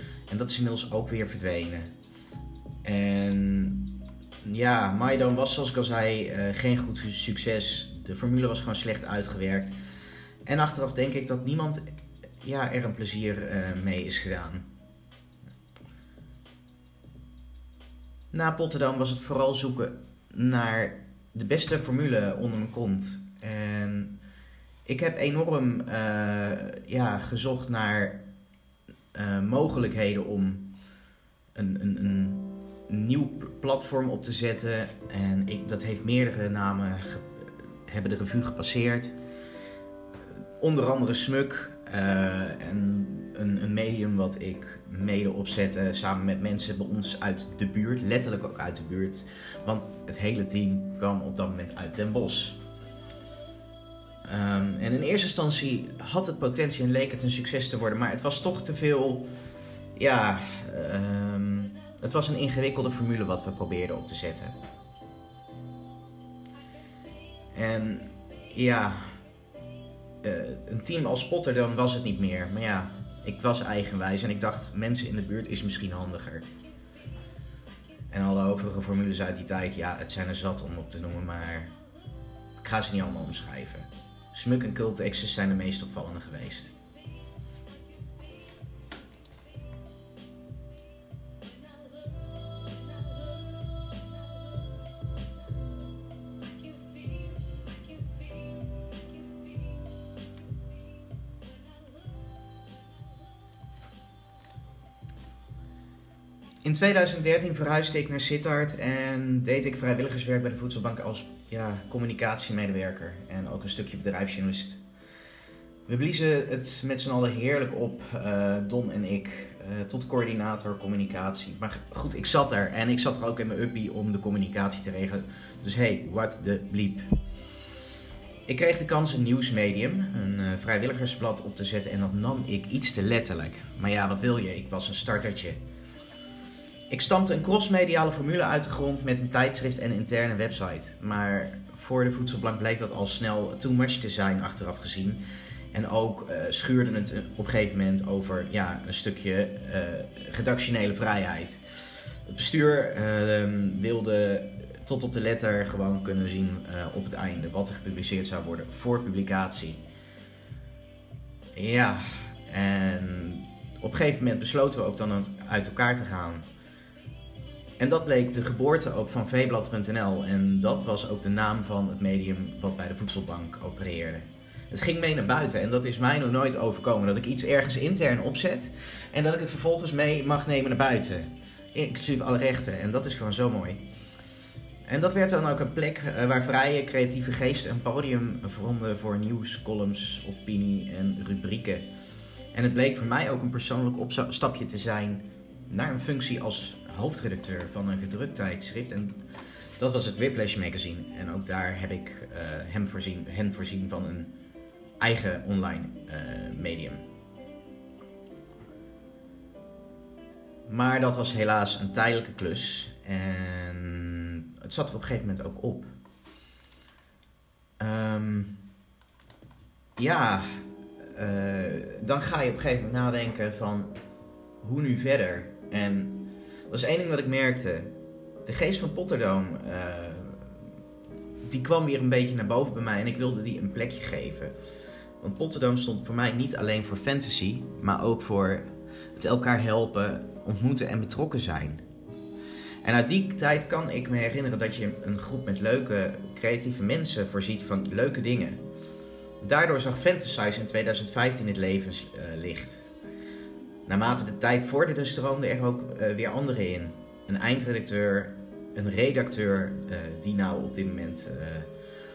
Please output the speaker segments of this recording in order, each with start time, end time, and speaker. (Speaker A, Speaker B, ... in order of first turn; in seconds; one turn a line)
Speaker A: 0.3-1.9
Speaker A: 2.8-9.7
Speaker A: 10.5-11.8
Speaker A: 12.4-14.7
Speaker A: 18.3-24.2
Speaker A: 24.9-28.2
Speaker A: 29.1-30.7
Speaker A: 31.6-39.1
Speaker A: 40.6-52.6
Speaker A: 54.2-59.3
Speaker A: 60.0-64.5
Speaker A: 67.5-69.1
Speaker A: 70.2-76.5
Speaker A: 78.1-81.7
Speaker A: 82.6-86.7
Speaker A: 106.6-114.8
Speaker A: 115.9-127.2
Speaker A: 128.5-135.6
Speaker A: 136.9-151.6
Speaker A: 152.3-159.8
Speaker A: 161.6-166.4
Speaker A: 167.8-183.8
Speaker A: 184.9-191.9
Speaker A: 192.5-199.2
Speaker A: 199.8-204.3
Speaker A: 205.0-207.0
Speaker A: 210.7-215.9
Speaker A: 217.8-218.6
Speaker A: 220.0-220.6
Speaker A: 221.2-223.9
Speaker A: 224.6-227.9
Speaker A: 228.4-230.5
Speaker A: 231.5-234.5
Speaker A: 235.2-241.8
Speaker A: 242.8-248.6
Speaker A: 249.4-252.8
Speaker A: 253.9-261.7